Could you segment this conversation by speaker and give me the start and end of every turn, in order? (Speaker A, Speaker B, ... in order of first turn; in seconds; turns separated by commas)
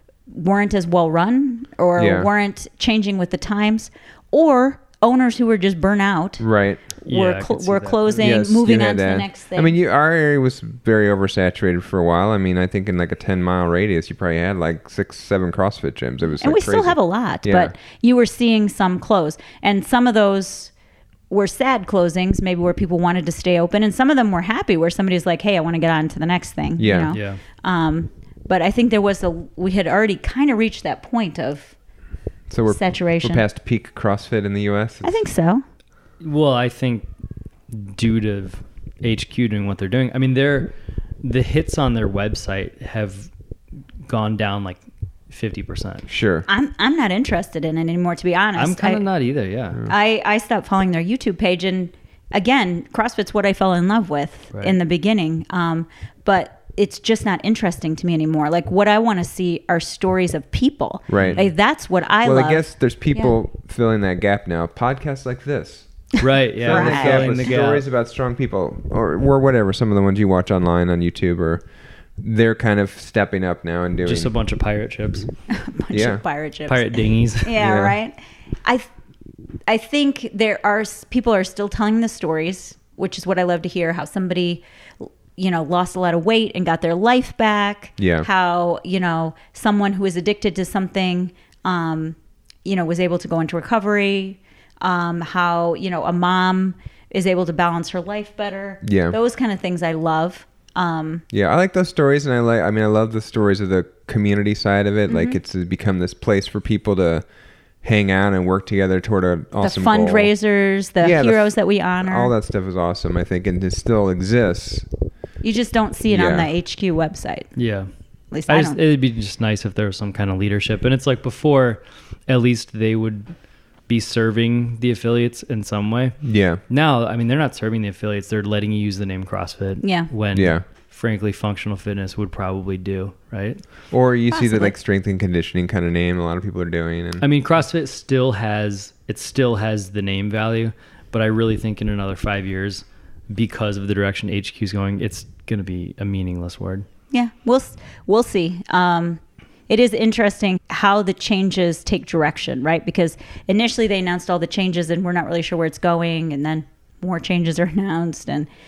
Speaker A: 0.3-9.7, Speaker B: 1.9-2.3, Speaker B: 6.4-6.8, Speaker C: 7.0-8.2, Speaker B: 8.2-17.7, Speaker A: 16.4-20.7, Speaker A: 21.3-31.7, Speaker B: 26.8-27.1, Speaker C: 27.1-27.4, Speaker B: 32.5-35.1, Speaker A: 32.7-33.4, Speaker A: 35.0-35.6, Speaker C: 36.2-37.1, Speaker C: 37.7-43.3, Speaker C: 44.1-46.1, Speaker B: 46.1-46.5, Speaker A: 46.5-49.0, Speaker C: 48.5-49.8, Speaker A: 49.9-63.3, Speaker B: 61.1-61.4, Speaker C: 61.2-61.5, Speaker B: 62.2-65.9, Speaker C: 66.2-67.8, Speaker B: 66.6-71.6, Speaker A: 66.7-67.4, Speaker B: 72.2-74.3, Speaker C: 74.0-75.3, Speaker A: 75.5-78.9, Speaker B: 75.9-76.2, Speaker C: 76.7-77.5, Speaker B: 77.6-78.0, Speaker A: 79.7-101.2, Speaker B: 88.0-88.3, Speaker B: 98.8-99.2, Speaker B: 101.3-107.2, Speaker A: 105.1-105.4, Speaker B: 107.8-110.3, Speaker A: 109.6-112.3, Speaker B: 111.0-114.8, Speaker A: 115.4-117.5, Speaker B: 116.1-116.5, Speaker C: 117.5-117.9, Speaker A: 118.3-118.8, Speaker C: 118.5-123.3, Speaker C: 123.9-126.2, Speaker B: 126.2-126.6, Speaker C: 126.7-133.6, Speaker A: 129.8-130.1, Speaker B: 130.3-130.6, Speaker B: 133.9-137.2, Speaker A: 134.3-134.7, Speaker C: 137.2-146.9, Speaker A: 147.1-158.5